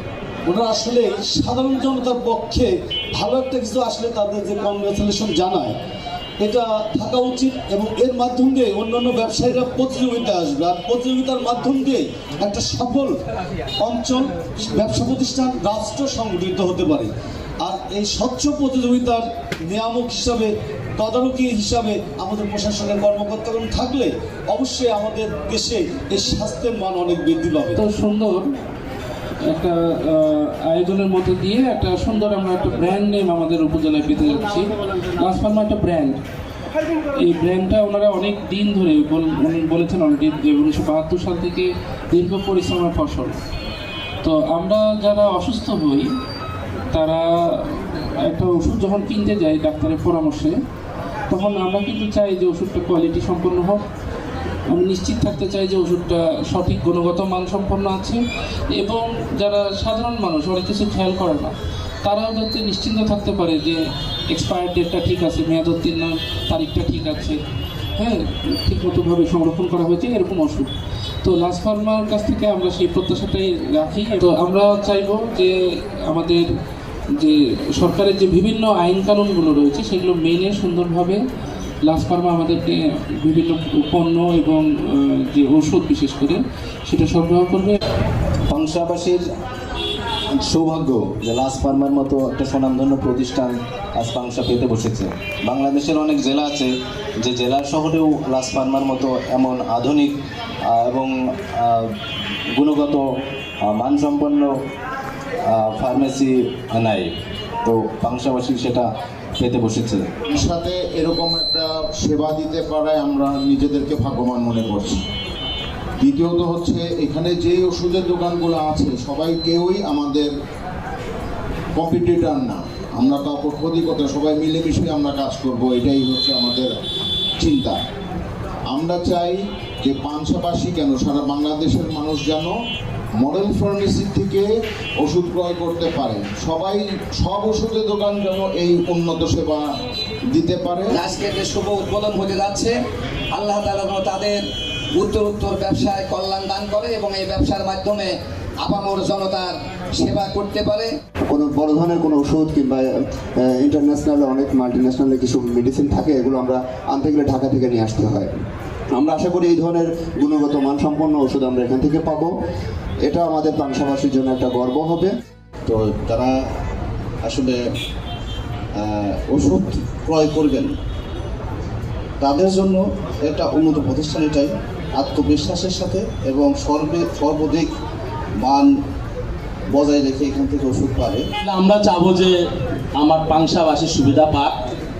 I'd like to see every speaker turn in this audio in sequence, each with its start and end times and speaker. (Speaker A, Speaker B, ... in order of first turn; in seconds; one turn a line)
Speaker A: 0.5-5.7
Speaker A: 6.4-13.1
Speaker A: 13.8-17.1
Speaker A: 17.6-20.5
Speaker A: 21.0-27.7
Speaker B: 27.8-28.4
Speaker B: 29.4-36.2
Speaker B: 37.1-43.3
Speaker B: 44.2-46.1
Speaker B: 46.9-50.6
Speaker B: 51.3-53.8
Speaker B: 54.7-58.2
Speaker B: 58.7-63.8
Speaker B: 64.3-67.4
Speaker B: 68.0-76.5
Speaker B: 77.2-81.2
Speaker B: 81.8-87.8
Speaker C: 88.5-89.2
Speaker C: 90.4-100.1
Speaker C: 100.7-101.8
Speaker C: 102.5-103.0
Speaker C: 103.7-104.5
Speaker C: 105.5-107.1
Speaker C: 107.7-108.9
Speaker C: 109.4-110.0
Speaker D: 110.3-115.0
Speaker D: 116.0-120.3
Speaker D: 121.8-126.7
Speaker D: 127.4-127.8
Speaker D: 128.7-132.5
Speaker D: 133.2-134.5
Speaker D: 135.0-139.7
Speaker D: 140.3-141.0
Speaker E: 140.9-142.8
Speaker E: 143.3-144.4
Speaker E: 144.9-150.9
Speaker F: 151.3-152.8
Speaker F: 153.4-158.3
Speaker F: 158.9-162.3
Speaker F: 163.1-165.1
Speaker G: 165.7-166.3
Speaker G: 167.2-167.6
Speaker G: 169.3-170.7
Speaker G: 172.2-177.7
Speaker G: 178.4-178.7
Speaker G: 179.8-181.2
Speaker H: 181.4-184.6